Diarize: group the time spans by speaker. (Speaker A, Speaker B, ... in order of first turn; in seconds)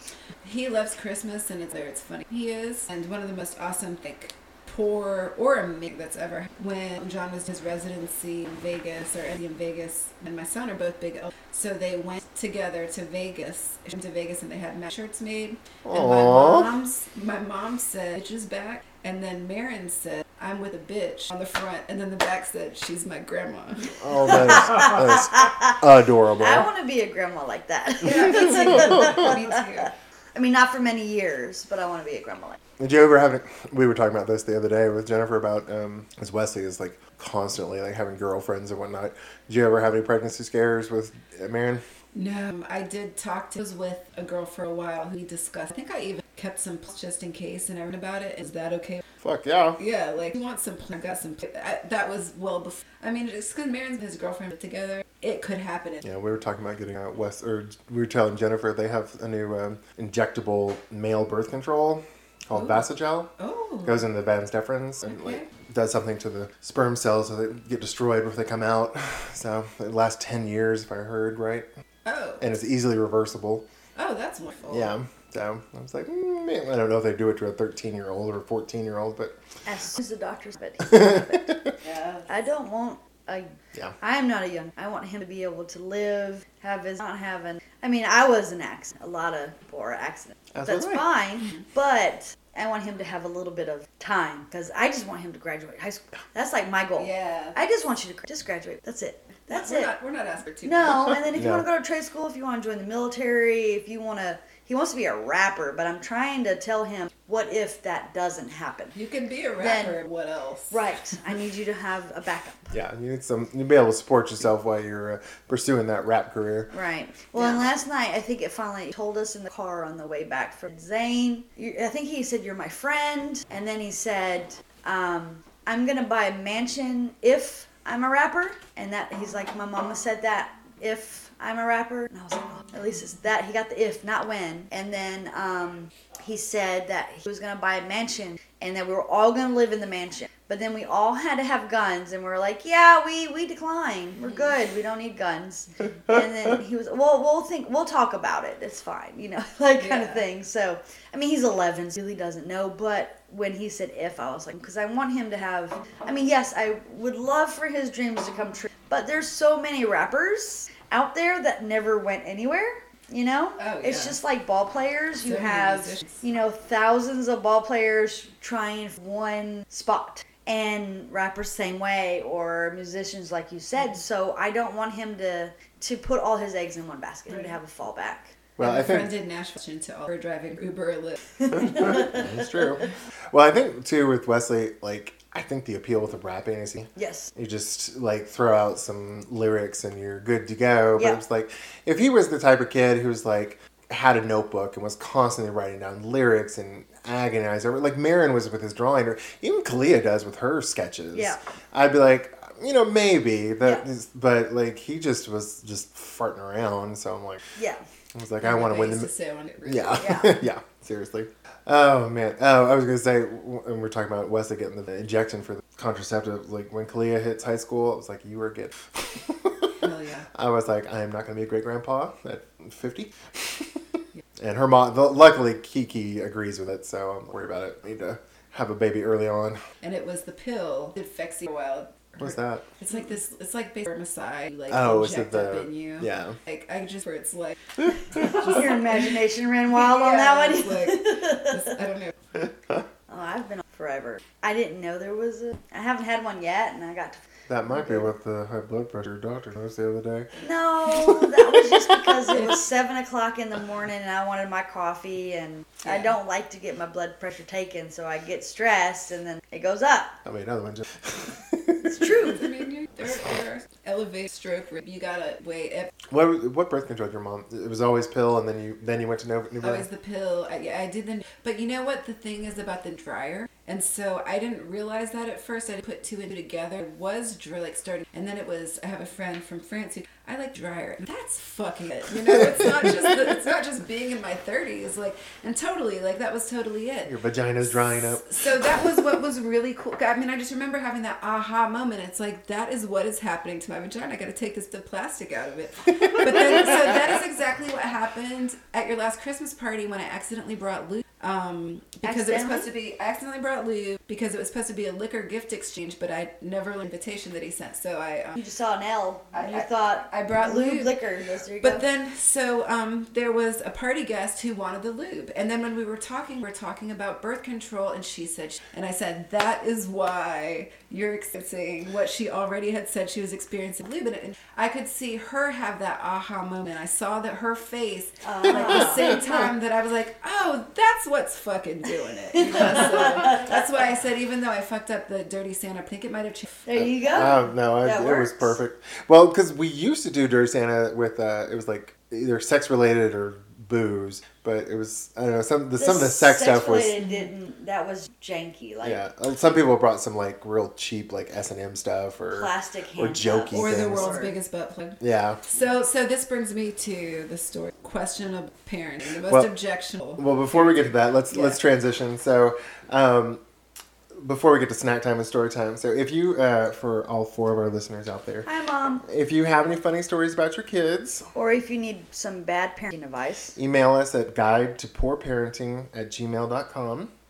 Speaker A: 0.4-23.9, 28.0-29.9, 42.1-49.0, 49.8-56.0, 63.4-64.1, 65.0-65.5, 72.0-72.4, 74.0-74.9, 81.8-82.2, 97.0-97.6, 99.5-101.2, 109.0-110.8, 117.3-117.7, 144.2-144.5, 149.8-150.3, 163.6-164.2, 165.2-166.2, 178.6-182.1, 208.4-210.2, 219.8-220.3, 229.8-238.9, 239.7-242.2, 255.8-256.1, 262.0-265.9, 269.6-308.4, 309.3-311.0, 311.6-337.1, 347.0-347.3, 353.5-361.6
Speaker B: 15.8-16.7, 24.0-26.7, 28.1-29.4, 32.8-41.9, 49.2-49.8, 56.0-63.3, 63.9-71.7, 72.4-73.6, 74.7-79.4, 80.9-81.7, 90.5-91.0, 101.3-101.7, 112.7-116.7, 178.6-179.1, 181.9-207.4, 208.1-209.1, 209.6-229.6, 232.2-232.7, 234.7-236.4, 247.5-250.3, 250.9-252.4, 260.2-262.2, 266.1-269.9, 287.1-288.9, 337.1-347.0, 348.8-354.3, 355.0-355.4, 359.2-359.5, 360.2-363.4, 364.1-368.5, 369.0-371.3, 373.6-377.1
Speaker C: 24.3-25.8, 26.4-32.6, 79.6-99.9, 100.6-109.0, 109.6-110.0, 110.7-112.8, 116.7-178.4, 187.0-187.3, 201.1-201.4, 207.6-207.9, 210.0-210.3, 238.2-241.7, 243.1-247.2, 250.4-260.2, 261.9-262.4, 302.0-302.7, 308.4-311.9, 328.2-329.4, 336.6-338.6, 345.8-349.0, 352.3-354.3, 368.5-369.1, 371.3-373.6